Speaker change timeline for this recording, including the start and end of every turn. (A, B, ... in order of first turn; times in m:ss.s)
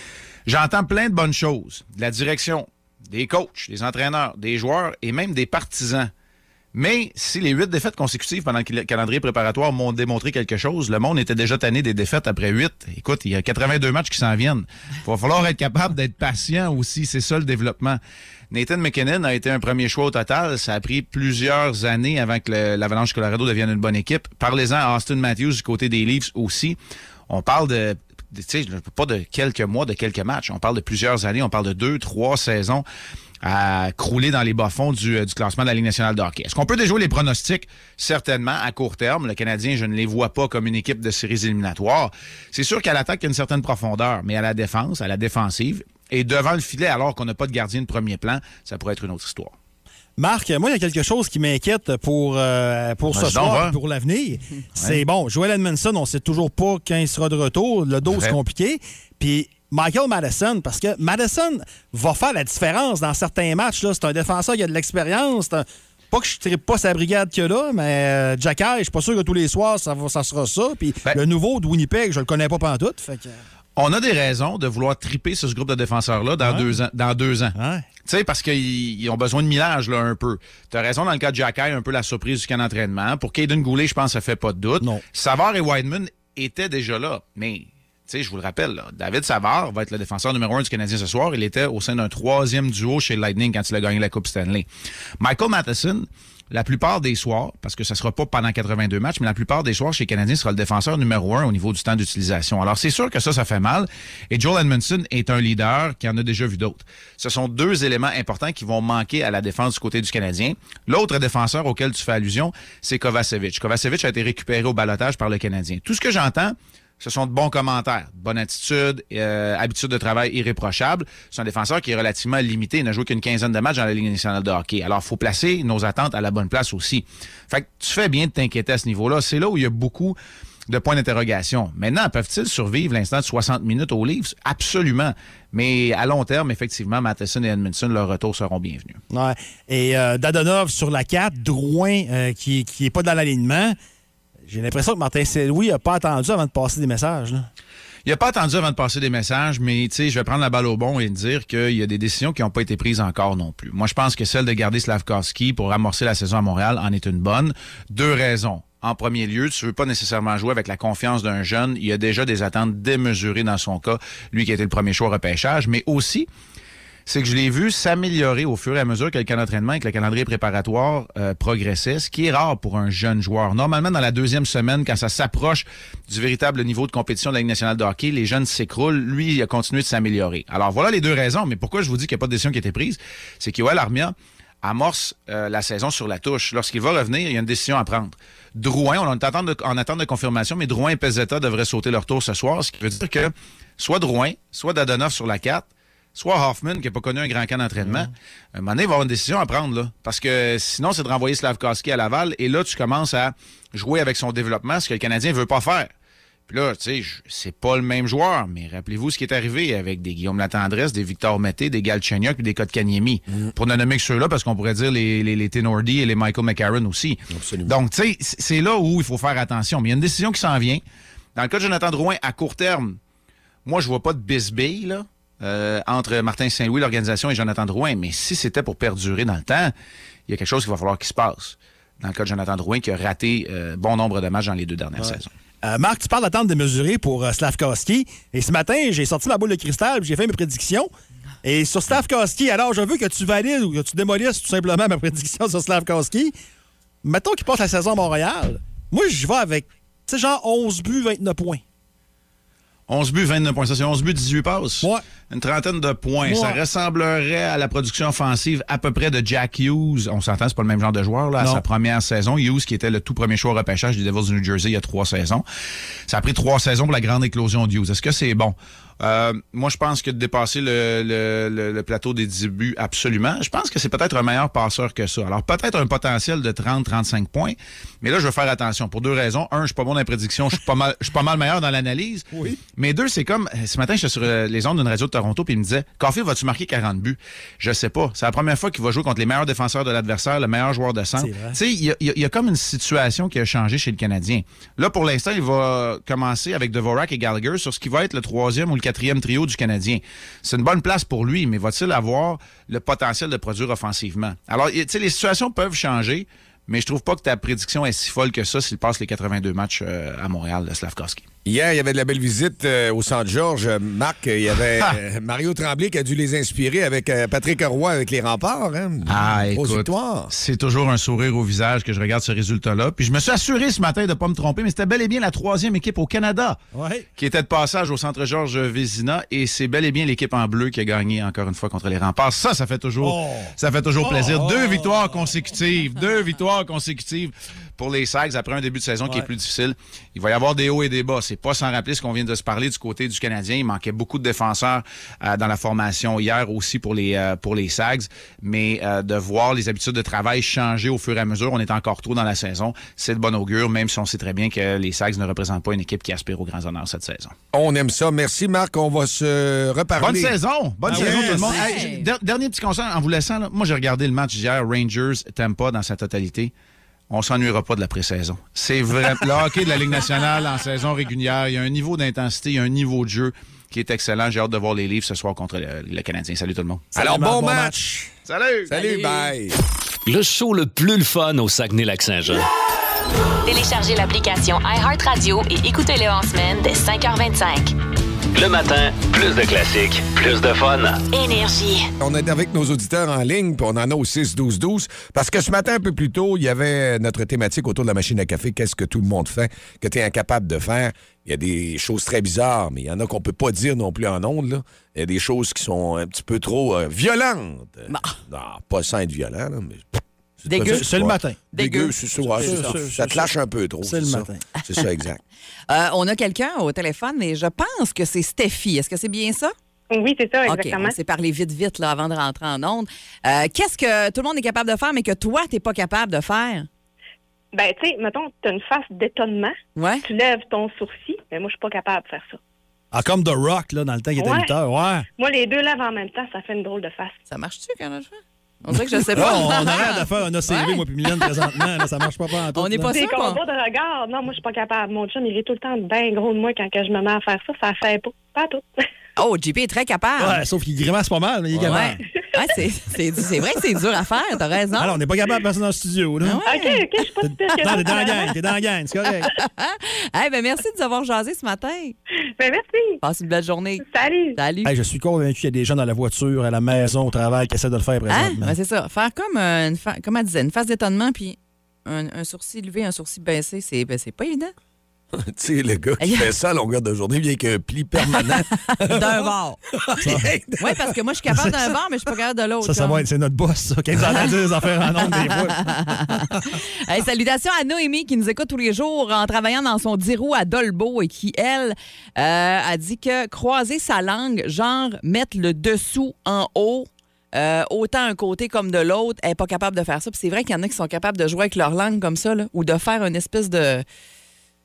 0:00.5-0:06.1 A
0:06.7-0:18.0 A
0:18.5-0:26.8 A
0:27.3-0:32.8 A
0:33.4-0:49.5 A
0:50.2-1:13.4 B
0:53.1-0:53.8 A
0:54.8-0:55.0 A
0:58.0-0:58.4 A
1:13.8-1:34.7 A
1:16.4-1:16.8 B
1:17.6-1:17.9 B
1:35.2-2:10.2 A
2:10.7-2:19.0 A
2:19.1-2:23.8 B
2:24.5-2:27.5 B
2:28.1-2:46.3 A
2:47.1-3:25.9 A
3:17.8-3:18.1 B
3:26.5-3:40.8 A
3:37.3-3:37.7 C
3:41.4-3:43.0 A
3:43.7-3:49.7 A
3:50.3-3:55.3 A
3:55.0-4:00.9 B
4:01.4-4:06.4 B
4:07.0-4:11.6 B
4:12.9-4:25.4 A
4:16.2-4:16.6 B
4:26.1-5:11.3 A
4:42.3-4:42.6 B
4:51.2-4:51.6 B
5:11.4-5:20.3 C
5:19.1-5:26.6 A
5:26.8-5:27.1 B
5:27.2-5:57.3 A
5:33.0-5:35.4 B
5:57.5-6:00.4 C
6:00.0-6:06.5 A
6:00.8-6:01.8 B
6:00.9-6:01.6 C
6:01.4-6:02.1 D
6:07.1-6:16.9 A
6:16.9-6:18.1 B
6:17.0-6:17.9 C
6:18.3-6:18.7 A
6:18.7-6:19.6 C
6:18.7-6:19.2 D
6:20.1-6:22.5 E
6:23.5-6:27.7 F
6:28.3-6:31.0 E
6:31.1-6:31.9 F
6:32.0-6:55.2 C
6:47.9-6:48.2 D
6:50.5-6:51.0 D
6:50.5-6:51.4 B
6:51.5-6:52.8 D
6:52.4-6:54.4 B
6:55.7-6:59.5 D
6:59.9-7:01.0 G
7:00.5-7:06.7 D
7:07.5-7:12.4 G
7:09.8-7:10.0 D
7:12.9-7:15.0 B
7:14.2-7:14.5 G
7:15.2-7:17.1 G
7:17.3-7:21.3 D
7:19.1-7:23.0 B
7:22.6-7:23.4 D
7:22.9-7:28.6 G
7:29.2-7:30.4 D
7:30.2-7:32.0 B
7:31.7-7:35.0 D
7:34.8-7:36.4 B
7:36.2-7:36.8 D
7:36.4-7:38.3 G
7:37.2-7:39.3 B
7:37.6-7:38.3 D
7:39.2-7:42.0 D
7:42.4-7:43.0 G
7:43.0-7:44.7 D
7:43.8-7:44.4 G
7:44.6-7:48.5 B
7:48.1-7:54.5 D
7:55.2-7:59.3 C
7:56.0-7:56.3 D
7:58.1-7:59.6 D
7:59.9-8:00.7 C
8:00.0-8:00.3 B
8:00.6-8:03.0 D
8:01.3-8:01.7 B
8:02.6-8:06.6 B
8:05.0-8:23.8 D